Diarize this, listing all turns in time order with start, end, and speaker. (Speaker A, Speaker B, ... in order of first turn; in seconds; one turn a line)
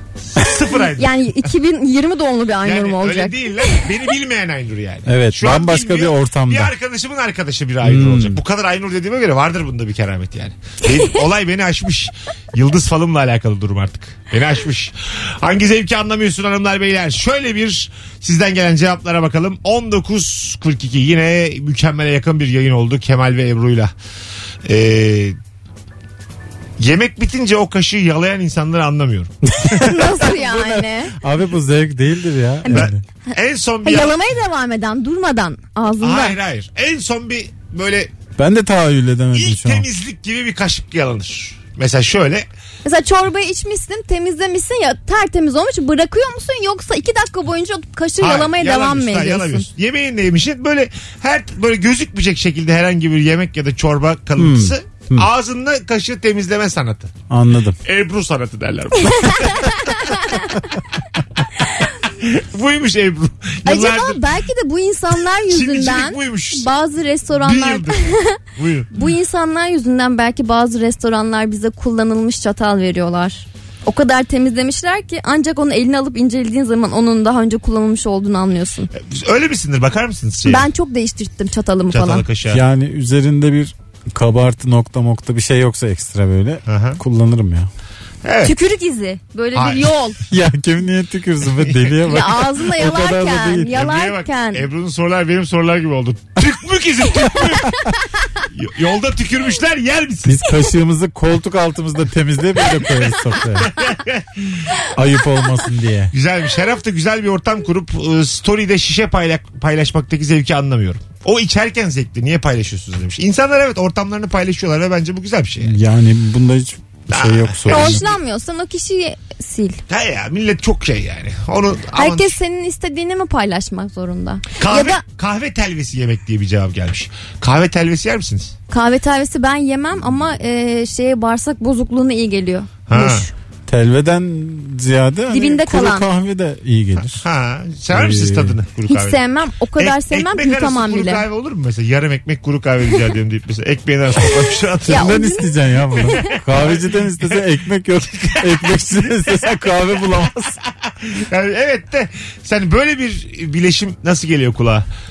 Speaker A: 0.3-1.1
Speaker B: 1.0-3.4
Speaker A: 2.6-23.9
Speaker C: 5.0-6.7
Speaker C: 7.8-8.4
Speaker A: 24.6-25.4
Speaker A: 26.8-29.8
Speaker C: 29.5-33.0
Speaker B: 29.8-31.1
Speaker B: 32.6-32.9
Speaker A: 32.7-34.2
Speaker B: 33.8-36.4
Speaker A: 36.0-38.1
Speaker C: 38.4-39.9
Speaker A: 39.3-42.5
Speaker B: 42.8-49.7
Speaker A: 48.2-57.1
Speaker C: 54.4-55.3
Speaker C: 57.3-57.8
Speaker A: 57.8-60.4
Speaker B: 59.1-60.5
Speaker A: 61.6-64.2
Speaker B: 63.6-68.4
Speaker A: 65.5-66.7
Speaker A: 67.3-68.0
Speaker A: 68.5-68.9
Speaker B: 68.9-78.9
Speaker A: 78.9-80.7
Speaker B: 80.5-82.2
Speaker A: 81.9-82.6
Speaker C: 82.5-87.7
Speaker A: 86.7-87.0
Speaker A: 88.2-88.5
Speaker B: 88.4-90.2
Speaker A: 89.5-89.9
Speaker C: 90.3-93.7
Speaker A: 91.6-91.9
Speaker B: 92.1-94.6
Speaker A: 93.7-100.5
Speaker C: 100.2-103.7
Speaker A: 103.6-104.7
Speaker C: 104.9-106.1
Speaker A: 106.1-115.7
Speaker C: 115.6-118.0
Speaker A: 117.1-118.1
Speaker B: 117.7-119.8
Speaker A: 119.9-122.3
Speaker B: 121.9-125.0
Speaker A: 124.6-128.5
Speaker B: 128.7-133.3
Speaker A: 132.9-133.3
Speaker C: 133.7-137.2
Speaker B: 135.3-136.1
Speaker A: 137.1-139.2
Speaker C: 137.9-138.6
Speaker B: 138.9-141.2
Speaker A: 139.8-145.2
Speaker B: 144.9-146.3
Speaker C: 144.9-150.6
Speaker A: 146.2-147.4
Speaker A: 148.2-149.7
Speaker A: 150.8-154.8